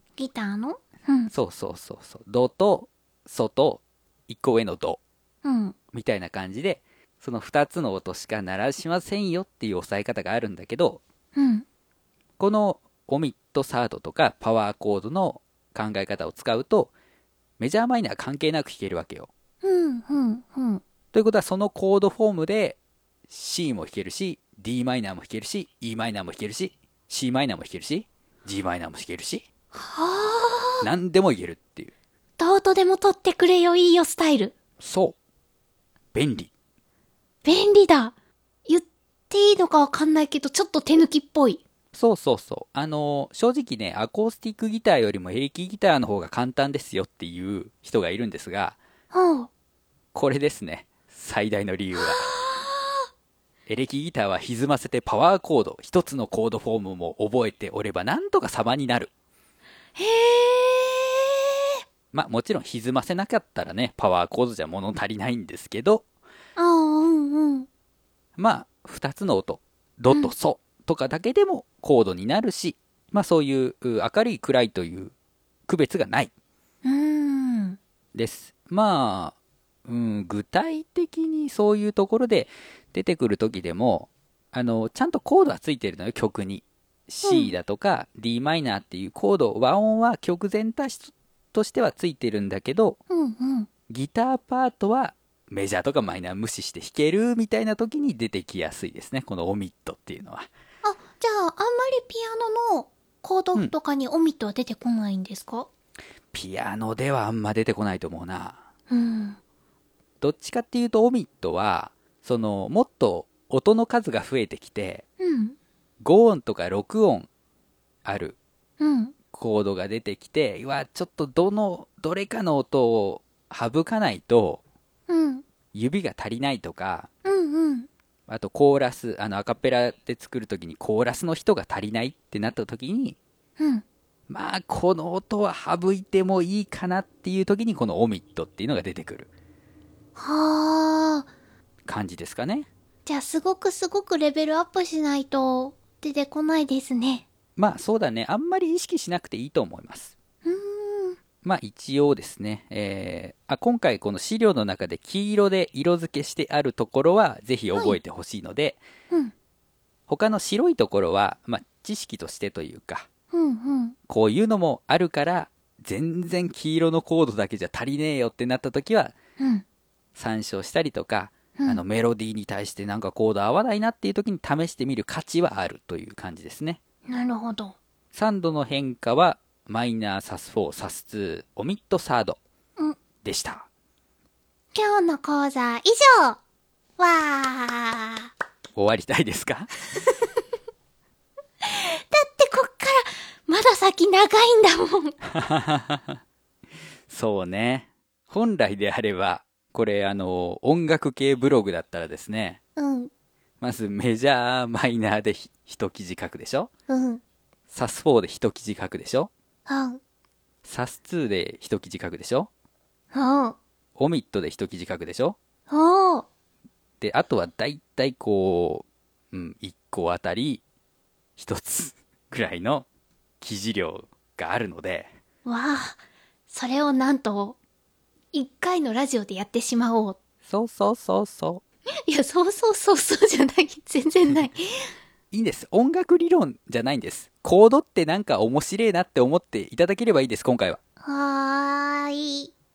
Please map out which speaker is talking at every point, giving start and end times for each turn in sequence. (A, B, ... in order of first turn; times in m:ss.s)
0:00.2-0:01.3 A
0:01.3-0:05.0 B
0:05.4-0:05.8 A
0:05.9-0:11.0 B
0:11.3-0:11.6 A
0:12.4-0:16.9 B
0:17.6-0:19.3 B
0:19.6-0:20.8 A
0:21.1-0:29.4 B
0:29.7-0:30.8 A
0:30.8-0:31.9 B
0:32.4-0:34.5 A
0:34.8-0:35.2 B
0:36.1-0:36.5 B
0:37.4-0:38.1 A
0:38.7-0:41.6 A
0:41.9-0:48.8 B
0:49.1-0:49.5 A
0:50.1-0:52.3 B
0:52.0-0:53.0 A
0:53.7-0:59.1 B
1:00.0-1:01.8 A
1:02.1-1:06.0 B
1:06.6-1:07.7 A
1:08.4-1:15.1 B
1:15.7-1:16.3 B
1:16.8-1:17.8 A
1:18.1-1:33.0 B
1:27.2-1:27.5 A
1:33.1-1:33.7 A
1:33.9-1:40.5 B
1:40.8-1:45.7 A
1:46.3-1:48.6 B
1:48.9-1:49.4 A
1:50.2-1:55.0 B
1:55.2-1:55.6 A
1:56.0-1:57.3 B
1:58.0-1:58.4 B
1:58.8-1:59.1 A
1:59.3-2:04.6 B
2:05.1-2:05.4 A
2:05.7-2:07.1 B
2:07.2-2:07.9 A
2:08.3-2:13.2 B
2:13.6-2:13.8 A
2:14.3-2:19.3 B
2:20.2-2:21.3 A
2:21.8-2:22.7 B
2:23.0-2:27.2 A
2:27.6-2:30.1 B
2:30.4-2:31.2 A
2:31.4-2:38.8 B
2:40.1-2:43.1 B
2:43.3-2:44.0 A
2:44.1-2:49.1 B
2:49.4-2:49.6 A
2:50.1-2:56.8 B
2:51.6-2:51.8 A
2:57.1-2:57.8 A
2:58.1-3:02.4 B
3:03.2-3:03.7 B
3:04.7-3:06.4 A
3:07.0-3:08.3 A
3:08.7-3:09.7 B
3:11.6-3:15.2 A
3:15.2-3:16.2 B
3:17.1-3:22.6 B
3:22.8-3:23.1 A
3:23.6-3:26.7 B
3:26.9-3:27.2 A
3:27.7-3:29.3 B
3:29.6-3:30.0 A
3:30.6-3:32.5 B
3:33.1-3:33.6 A
3:34.0-3:35.4 B
3:35.7-3:36.2 A
3:37.0-3:40.6 B
3:41.4-3:42.9 B
3:43.4-3:45.1 B
3:45.4-3:47.6 A
3:48.3-3:50.2 A
3:50.5-3:51.6 B
3:52.0-3:54.9 A
3:55.3-4:00.8 B
4:01.0-4:02.5 A